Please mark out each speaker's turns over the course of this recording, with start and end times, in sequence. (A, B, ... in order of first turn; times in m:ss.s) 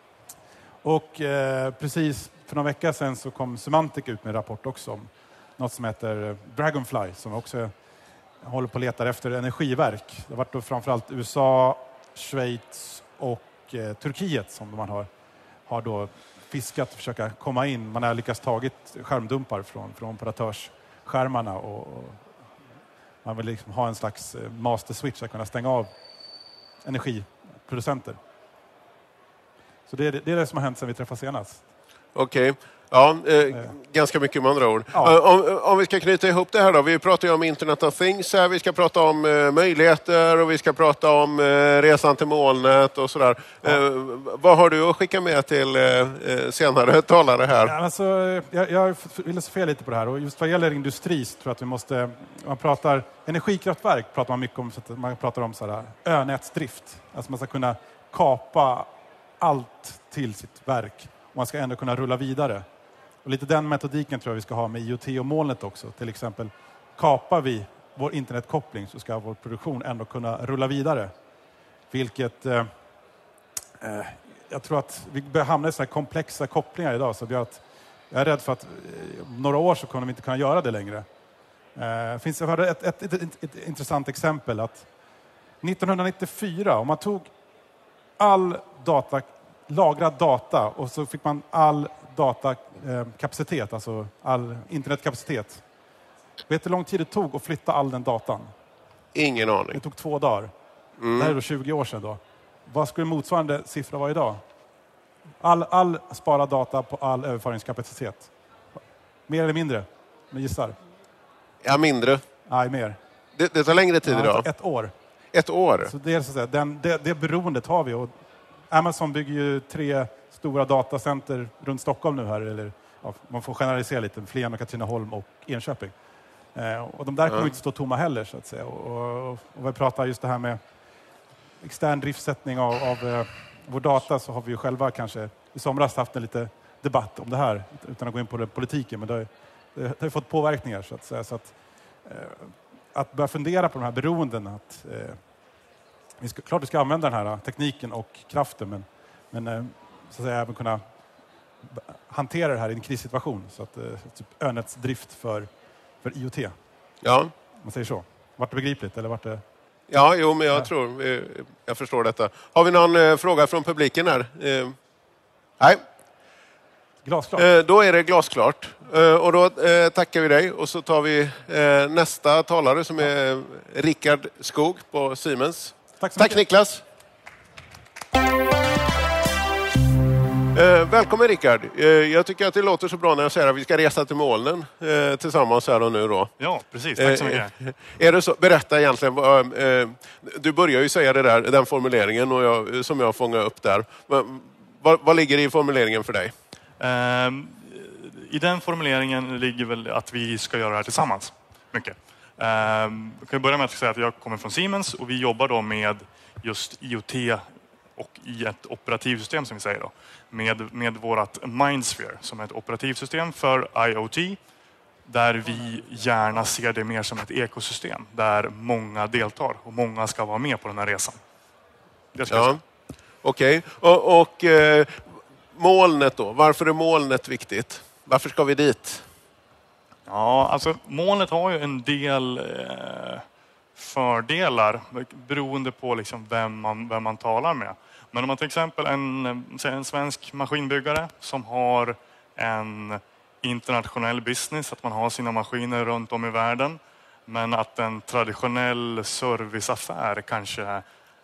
0:00.8-0:07.7 A
0:08.4-0:15.1 A
0:15.7-0:22.3 A
0:23.2-0:25.9 A
0:26.8-0:28.2 A
0:29.9-0:31.6 A
0:32.2-0:47.7 B
0:47.6-0:58.9 A
0:59.4-1:02.6 A
1:03.2-1:11.1 A
1:11.9-1:12.7 A
1:13.8-1:21.1 A
1:21.8-1:24.9 A
1:25.6-1:27.3 A
1:28.2-1:35.6 A
1:36.5-1:38.5 A
1:39.2-1:39.8 B
1:39.7-1:40.5 A
1:41.0-1:41.4 B
1:41.2-1:44.4 A
1:45.4-1:48.3 A
1:49.3-1:50.8 A
1:51.6-1:52.2 B
1:52.5-1:53.0 A
1:53.4-1:54.5 B
1:54.0-1:54.9 A
1:55.3-1:55.9 B
1:55.8-1:58.1 A
1:58.7-2:05.9 A
2:06.5-2:10.6 A
2:11.6-2:25.2 A
2:26.2-2:30.8 A
2:31.6-2:35.5 A
2:36.0-2:36.6 A
2:37.0-2:37.3 B
2:37.6-2:39.4 A
2:39.9-2:44.8 B
2:47.0-2:47.5 A
2:47.4-2:56.8 B
2:56.0-2:56.4 A
3:00.5-3:06.3 B
3:06.4-3:07.5 C
3:07.0-3:16.3 B
3:16.8-3:34.4 C
3:35.1-3:41.2 C
3:42.1-3:42.6 C
3:42.3-3:42.6 B
3:43.2-3:49.1 B
3:50.1-4:10.8 C